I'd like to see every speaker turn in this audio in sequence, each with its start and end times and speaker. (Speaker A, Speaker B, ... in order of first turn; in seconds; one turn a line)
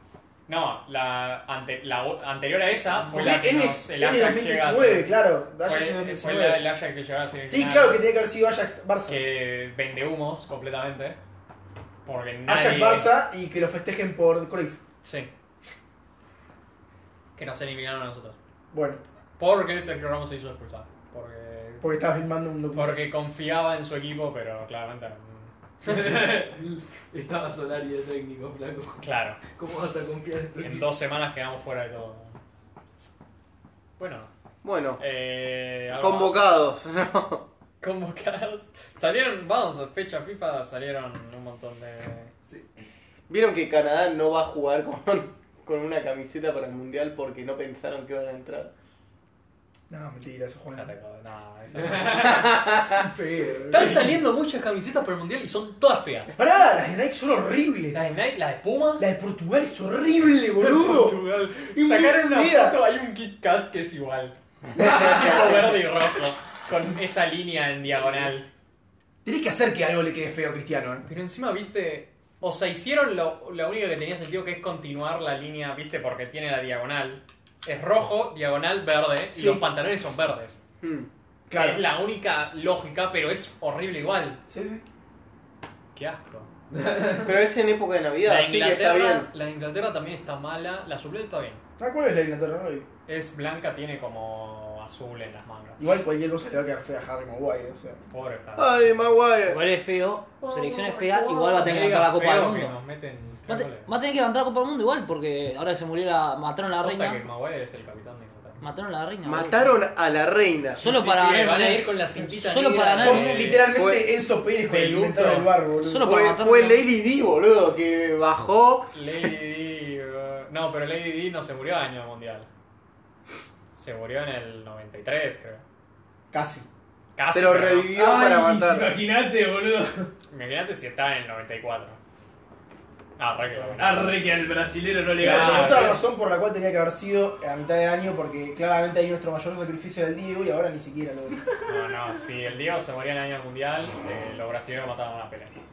Speaker A: 0.5-8.0
Speaker B: 3.1-6.6
Speaker B: 7.5-9.2
Speaker A: 9.1-11.2
Speaker A: 12.0-13.1
Speaker B: 12.5-14.8
Speaker A: 15.0-15.3
Speaker A: 17.4-18.4
Speaker B: 18.7-19.0
Speaker A: 19.4-21.9
Speaker B: 21.8-23.0
Speaker A: 22.7-26.2
Speaker C: 25.8-29.0
Speaker A: 29.0-29.4
Speaker C: 29.5-30.9
Speaker A: 30.6-32.4
Speaker A: 34.0-34.3
Speaker D: 34.6-35.0
Speaker A: 35.0-36.4
Speaker D: 35.9-37.4
Speaker A: 37.8-42.3
Speaker D: 43.3-48.7
Speaker B: 49.9-50.9
Speaker A: 50.7-52.7
Speaker C: 52.1-52.4
Speaker B: 53.0-54.1
Speaker A: 53.7-56.3
Speaker B: 56.3-58.1
Speaker A: 57.9-59.0
Speaker B: 59.0-62.8
Speaker A: 60.6-68.5
Speaker B: 64.8-65.7
Speaker B: 69.2-71.1
Speaker A: 71.0-80.6
Speaker B: 79.3-79.6
Speaker D: 80.8-81.1
Speaker B: 81.5-81.8
Speaker A: 81.5-84.4
Speaker B: 84.5-84.8
Speaker A: 85.9-86.5
Speaker C: 86.7-87.3
Speaker D: 87.1-89.3
Speaker A: 88.2-91.6
Speaker B: 91.8-92.9
Speaker A: 93.1-95.8
Speaker B: 95.8-98.0
Speaker A: 98.1-98.9
Speaker D: 98.5-99.6
Speaker E: 99.4-102.7
Speaker A: 101.3-103.9
Speaker E: 103.5-107.2
Speaker A: 106.8-108.6
Speaker E: 108.6-109.7
Speaker D: 109.2-110.8
Speaker E: 110.7-113.5
Speaker A: 110.8-113.7
Speaker B: 112.9-116.0
Speaker D: 113.7-114.0
Speaker A: 114.6-115.5
Speaker E: 115.8-116.8
Speaker D: 115.9-118.9
Speaker A: 118.9-122.5
Speaker A: 123.7-125.6
Speaker B: 126.3-126.7
Speaker A: 127.2-128.0
Speaker D: 127.3-128.9
Speaker C: 127.9-130.1
Speaker A: 130.3-132.0
Speaker A: 133.2-134.4
Speaker C: 133.5-136.0
Speaker A: 135.2-136.0
Speaker B: 135.2-141.4
Speaker A: 141.6-145.5